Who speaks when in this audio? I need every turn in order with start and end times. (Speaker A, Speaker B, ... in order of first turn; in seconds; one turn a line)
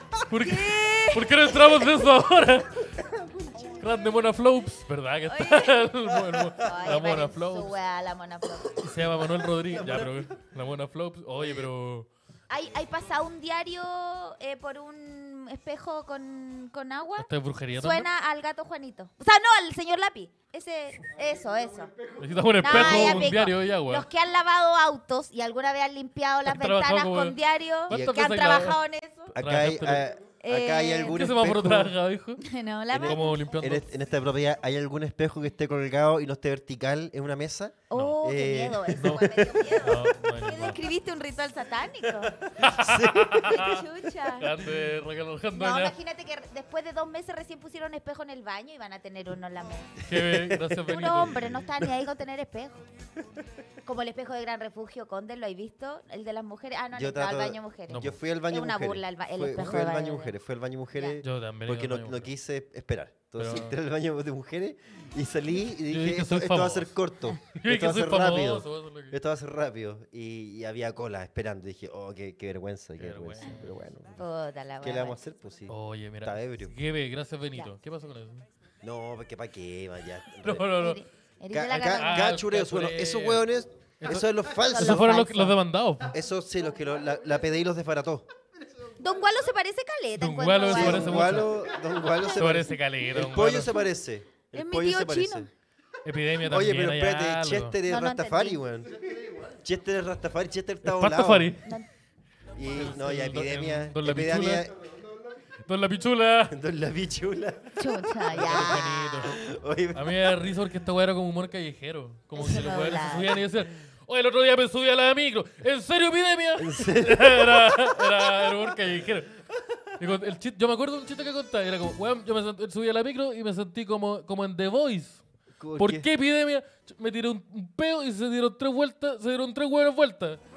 Speaker A: 0.3-2.9
Speaker B: 0.4-1.9
Speaker C: 3.0-3.7
Speaker A: 3.8-7.7
Speaker B: 5.3-5.9
Speaker B: 6.6-8.8
Speaker A: 8.8-12.1
Speaker C: 9.6-10.4
Speaker C: 11.4-11.7
Speaker B: 12.5-21.9
Speaker A: 17.2-18.1
Speaker A: 22.2-24.1
Speaker B: 22.6-29.3
Speaker C: 22.7-23.3
Speaker A: 26.4-27.4
Speaker A: 27.9-28.8
Speaker C: 27.9-28.2
Speaker C: 29.3-31.9
Speaker A: 29.4-30.0
Speaker B: 30.4-31.2
Speaker A: 31.1-32.4
Speaker B: 32.4-33.5
Speaker C: 32.9-39.2
Speaker A: 33.0-33.9
Speaker B: 37.9-42.4
Speaker A: 38.9-40.8
Speaker A: 42.5-46.0
Speaker C: 42.6-43.6
Speaker B: 43.4-44.5
Speaker B: 45.5-50.0
Speaker C: 50.0-51.8
Speaker A: 50.1-51.6
Speaker B: 50.9-52.8
Speaker B: 53.9-60.4
Speaker C: 57.0-74.2
Speaker A: 57.9-58.2
Speaker A: 61.2-62.3
Speaker A: 63.4-63.8
Speaker A: 65.9-69.2
Speaker A: 73.0-73.8
Speaker B: 74.2-75.2
Speaker C: 74.8-76.8
Speaker A: 75.7-78.5
Speaker C: 78.8-80.8
Speaker A: 80.4-81.0
Speaker B: 80.8-82.4
Speaker C: 81.5-85.2
Speaker A: 81.8-83.5
Speaker A: 84.0-86.1
Speaker B: 84.6-85.6
Speaker C: 86.1-88.3
Speaker B: 89.0-91.4
Speaker A: 90.2-91.6
Speaker C: 90.7-95.5
Speaker A: 92.3-93.7
Speaker B: 94.5-95.5
Speaker A: 96.0-97.8
Speaker C: 96.4-101.6
Speaker B: 97.9-98.6
Speaker A: 100.8-101.7
Speaker C: 102.5-104.7
Speaker A: 102.7-104.7
Speaker A: 105.6-106.6
Speaker C: 106.5-110.3
Speaker B: 107.8-109.3
Speaker A: 108.3-109.4
Speaker A: 109.9-119.3
Speaker B: 112.3-113.4
Speaker C: 116.6-118.0
Speaker A: 120.0-125.2
Speaker C: 125.6-126.1
Speaker A: 125.8-130.4